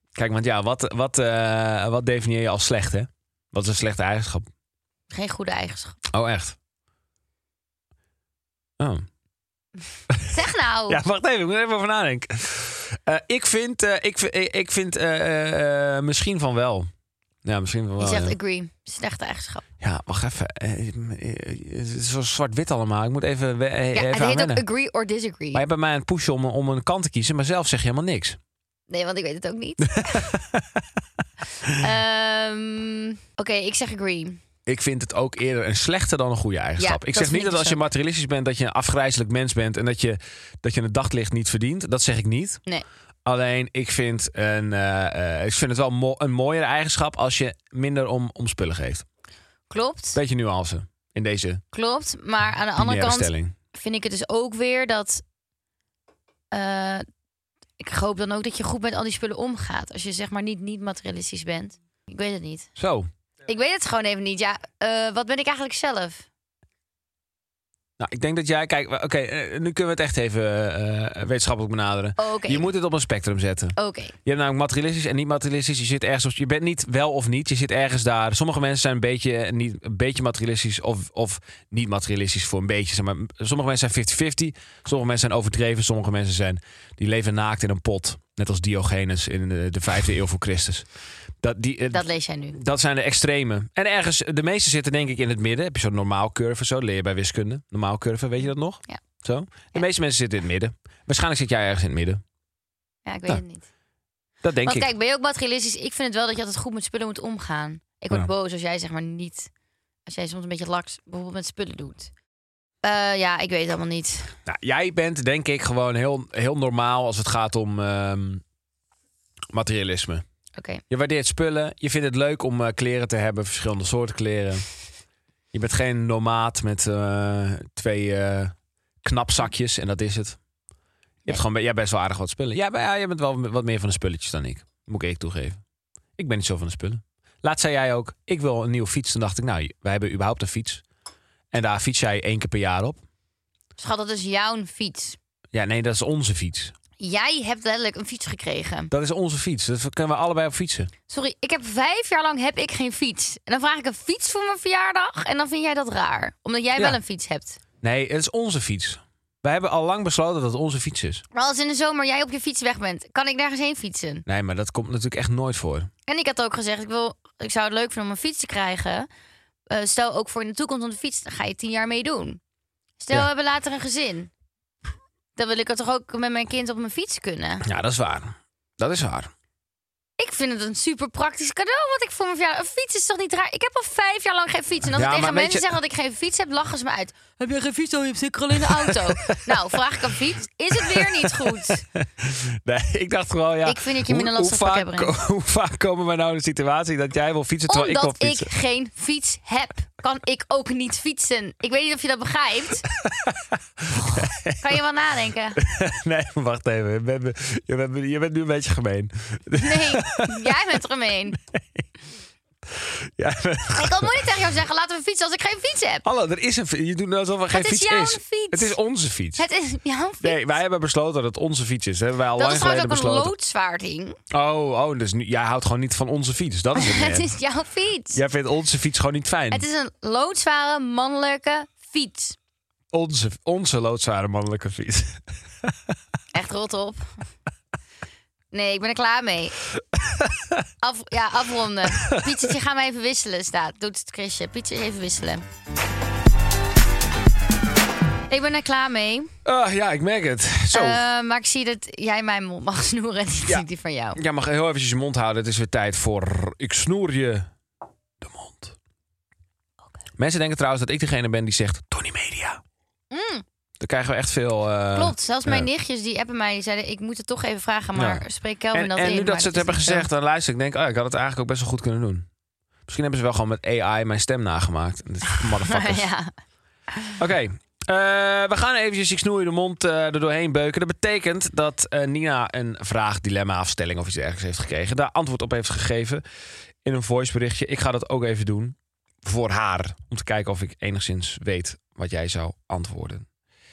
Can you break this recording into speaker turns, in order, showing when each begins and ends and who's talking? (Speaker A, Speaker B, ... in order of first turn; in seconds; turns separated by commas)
Speaker A: 0.1-4.5, Speaker B: 5.1-6.0, Speaker A: 6.1-6.5, Speaker A: 8.8-9.1, Speaker B: 10.3-11.0, Speaker A: 10.9-16.9, Speaker A: 17.4-18.4, Speaker B: 18.0-19.6, Speaker A: 19.8-24.6, Speaker B: 23.9-25.6, Speaker A: 25.5-28.4, Speaker B: 28.9-30.3, Speaker A: 29.9-30.8, Speaker B: 31.8-34.4, Speaker A: 34.7-42.6, Speaker B: 36.8-37.8, Speaker A: 43.2-49.0, Speaker B: 49.7-50.2, Speaker A: 50.1-51.6, Speaker B: 51.7-55.2, Speaker A: 52.8-53.5, Speaker B: 56.5-57.0, Speaker B: 57.8-62.7, Speaker A: 62.8-63.1, Speaker B: 63.4-66.2, Speaker A: 68.0-90.9, Speaker B: 72.2-72.7, Speaker B: 73.8-74.1, Speaker A: 91.4-102.2, Speaker B: 91.9-92.6, Speaker B: 103.0-103.6, Speaker A: 104.4-104.9, Speaker B: 104.6-109.5, Speaker B: 110.0-112.1, Speaker B: 112.8-114.3, Speaker A: 114.5-118.4, Speaker A: 119.5-120.2, Speaker B: 120.5-120.8, Speaker A: 120.9-124.7, Speaker A: 125.5-130.4, Speaker A: 131.2-135.6, Speaker A: 136.2-140.8, Speaker A: 141.5-143.0, Speaker B: 143.8-145.2, Speaker A: 145.5-146.7, Speaker B: 147.0-148.9, Speaker A: 148.9-150.9, Speaker B: 151.1-157.6, Speaker A: 157.8-161.2, Speaker B: 161.3-164.2, Speaker A: 164.3-165.9, Speaker B: 166.1-169.1, Speaker B: 169.7-172.4, Speaker B: 173.0-174.3, Speaker B: 175.3-177.6, Speaker A: 177.6-179.3, Speaker B: 180.2-191.8, Speaker A: 184.9-185.7, Speaker A: 188.6-189.8, Speaker A: 190.8-198.5, Speaker B: 193.6-195.2, Speaker B: 197.7-202.8, Speaker A: 202.9-204.8, Speaker B: 203.9-205.6, Speaker A: 205.6-210.8, Speaker B: 209.6-211.4, Speaker A: 211.3-211.8, Speaker A: 212.7-214.3, Speaker B: 213.7-216.0, Speaker A: 216.0-219.4, Speaker B: 217.5-218.7, Speaker B: 219.4-220.6, Speaker A: 220.2-223.3, Speaker B: 222.4-224.2, Speaker A: 224.3-227.3, Speaker B: 226.7-228.2, Speaker A: 228.1-229.7, Speaker B: 229.5-232.3, Speaker A: 232.9-235.7, Speaker B: 236.3-237.1, Speaker B: 238.5-239.6, Speaker A: 239.9-240.6, Speaker B: 240.8-245.4, Speaker A: 241.9-242.5, Speaker B: 248.3-249.3, Speaker A: 249.4-251.0, Speaker B: 250.7-254.2, Speaker A: 253.4-257.5, Speaker A: 258.2-258.8, Speaker A: 260.2-262.6, Speaker B: 263.1-263.4, Speaker A: 263.8-265.7, Speaker B: 264.9-270.1, Speaker A: 267.9-272.3, Speaker A: 272.9-276.1, Speaker B: 275.3-276.3, Speaker A: 277.2-286.2, Speaker A: 286.8-293.2